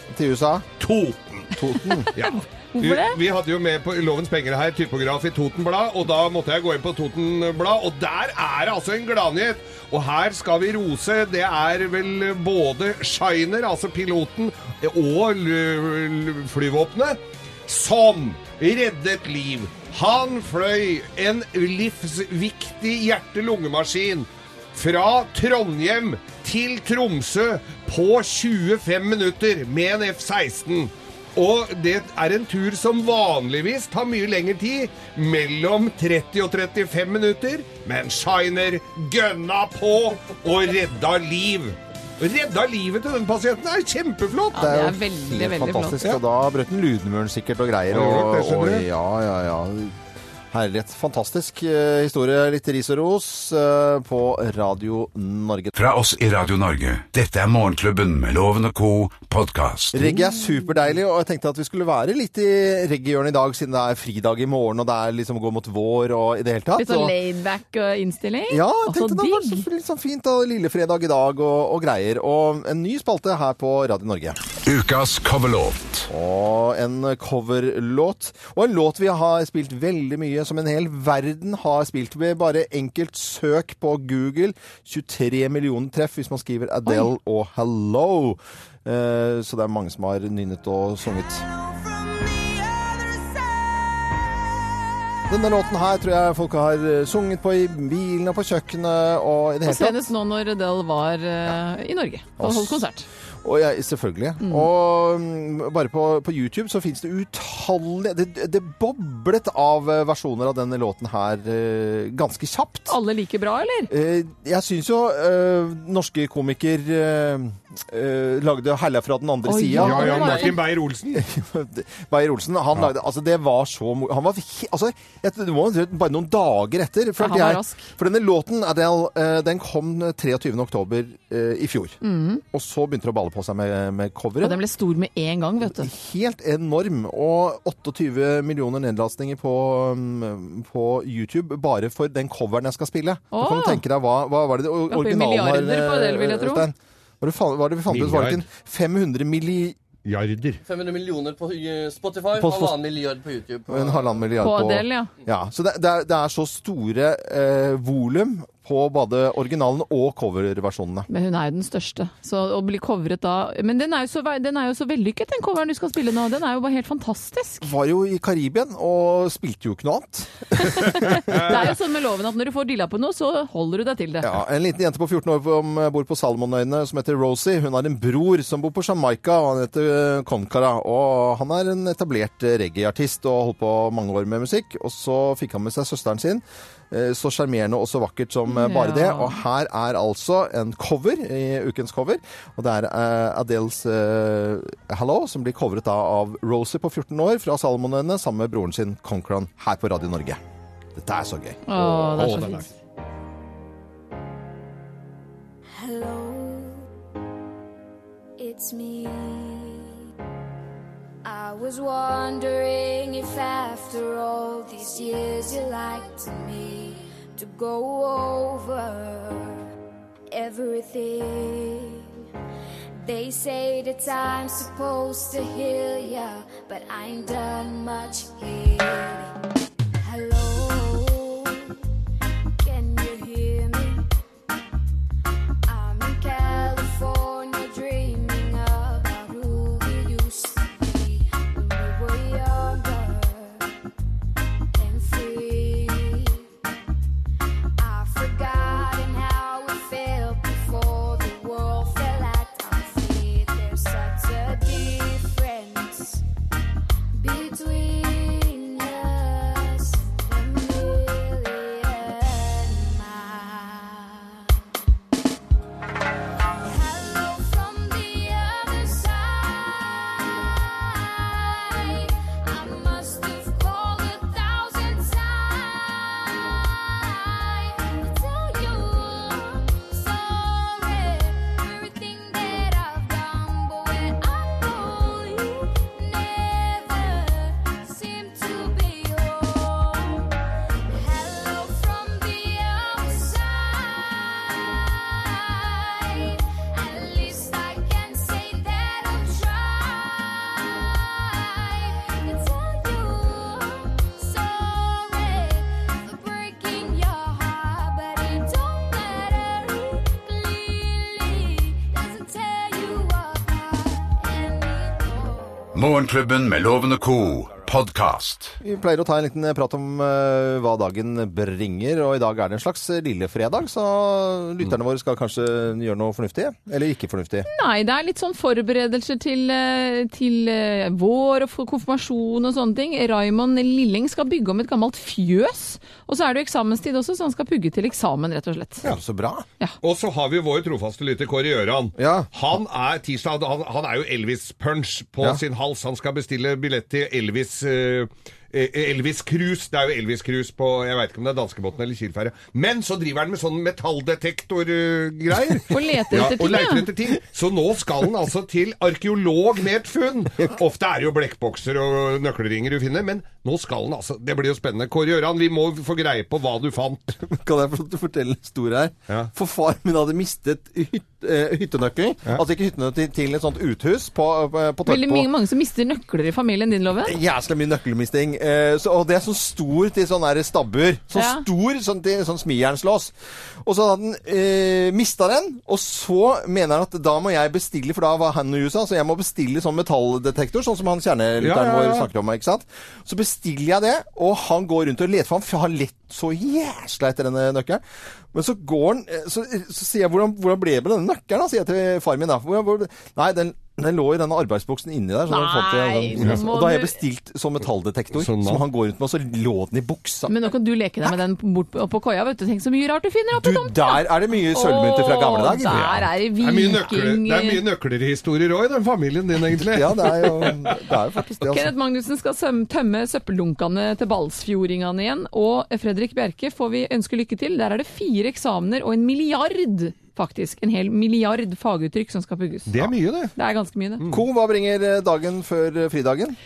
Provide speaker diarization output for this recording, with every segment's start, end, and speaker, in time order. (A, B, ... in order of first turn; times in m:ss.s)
0:00.1-0:00.7 A
0:00.8-0:01.5 B
0:01.5-0:02.1 A
0:02.0-0:03.2 C
0:02.1-0:44.6 B
0:44.5-0:46.0 C
0:44.5-0:50.0 A
0:47.9-0:48.8 B
0:50.5-0:55.7 A
0:55.7-1:00.1 D
0:59.9-1:07.1 A
1:06.8-1:09.6 C
1:08.5-1:14.4 A
1:14.6-1:16.1 D
1:16.1-1:31.4 A
1:35.3-1:40.1 A
1:39.6-1:43.1 C
1:42.4-1:42.8 A
1:43.4-1:52.9 A
1:44.4-1:44.7 C
1:52.9-1:53.9 C
1:53.9-2:00.5 A
1:59.4-2:00.6 C
1:59.8-2:01.2 B
1:59.9-2:00.4 E
2:01.1-2:12.0 A
2:07.2-2:07.9 C
2:12.0-2:12.4 C
2:12.5-2:14.6 A
2:14.4-2:15.9 C
2:15.6-2:29.8 A
2:23.3-2:23.8 C
2:24.9-2:26.7 C
2:27.9-2:28.4 B
2:30.0-2:30.6 B
2:30.6-2:34.3 E
2:32.4-2:32.8 A
2:33.7-2:41.1 A
2:34.4-2:35.1 C
2:41.1-2:47.7 C
2:47.6-2:51.7 A
2:50.6-2:54.3 C
2:51.3-2:51.6 B
2:54.2-3:20.4 A
3:08.5-3:09.4 C
3:20.9-3:21.6 A
3:21.7-3:22.7 C
3:21.8-3:22.7 B
3:25.7-3:26.9 F
3:28.4-3:30.0 F
3:31.2-3:39.6 F
3:40.3-3:42.2 F
3:43.0-3:49.3 F
3:50.0-3:51.8 F
3:52.6-3:54.1 F
3:55.7-4:03.7 F
4:04.7-4:06.5 F
4:07.8-4:16.2 F
4:17.1-4:24.6 F
4:26.6-4:50.4 F
4:50.9-5:15.9 F
5:15.7-5:18.6 D
5:18.6-5:27.5 A
5:27.5-5:38.8 C
5:38.8-5:39.4 A
5:39.8-6:07.2 B
5:42.0-5:42.3 A
5:55.7-5:56.9 C
6:07.2-6:15.3 A
6:14.8-6:17.2 C
6:17.0-6:37.8 A
6:21.1-6:21.4 C
6:31.4-6:32.1 B
6:38.3-6:50.5 A
6:45.3-6:47.0 C
6:48.1-6:48.6 B
6:50.3-6:57.6 C
6:53.3-6:55.9 A
6:55.7-7:00.7 B
6:59.6-7:01.7 A
7:01.5-7:12.7 C
7:12.7-7:13.3 B
7:13.3-7:14.0 C
7:14.1-7:16.4 A